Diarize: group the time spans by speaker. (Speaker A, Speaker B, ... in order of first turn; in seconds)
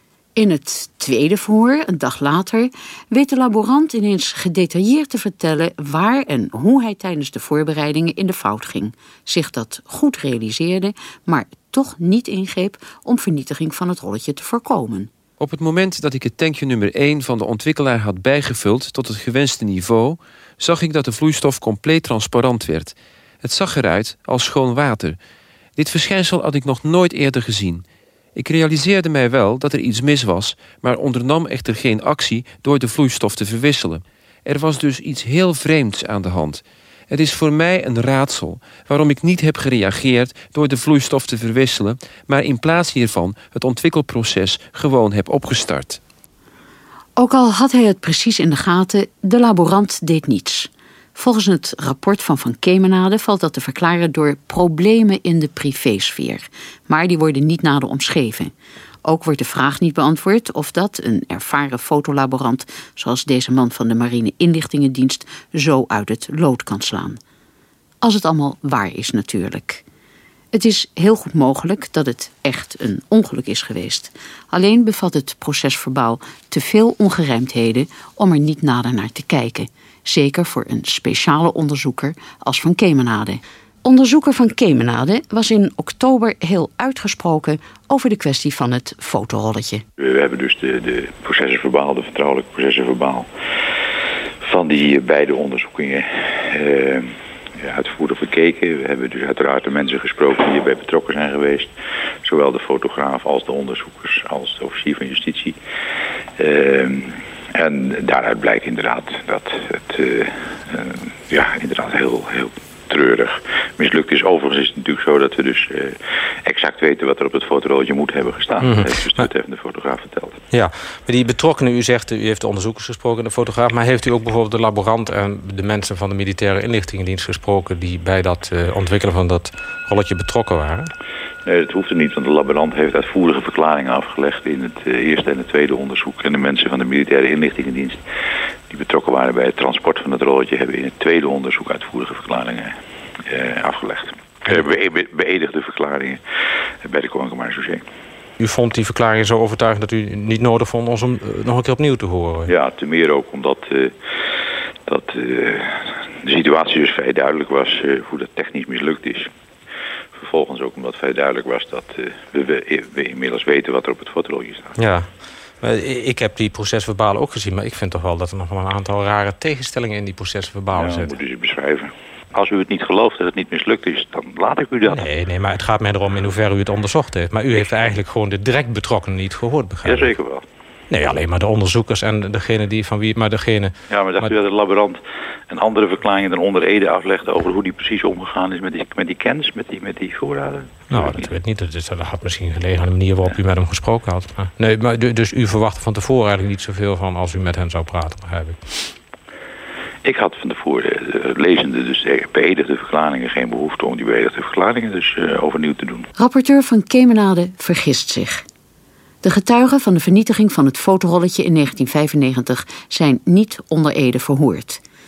Speaker A: 0.3-15.1, 47.2-58.5, 59.0-67.2, 68.0-69.8, 70.5-89.8, 206.2-208.4, 209.2-214.8
Speaker B: 15.4-25.2, 25.8-46.0
Speaker C: 90.0-93.3, 94.4-101.7, 102.2-105.6, 106.4-120.4, 131.4-138.0, 138.7-146.2, 146.8-147.8, 152.5-153.9, 154.9-159.3, 160.1-164.8, 170.7-175.1, 177.5-177.9, 179.8-180.4, 183.9-191.3, 200.0-206.1
Speaker D: 118.6-119.3, 120.5-130.9, 148.4-152.5, 164.8-171.1, 174.9-180.1, 180.9-184.3, 190.9-198.6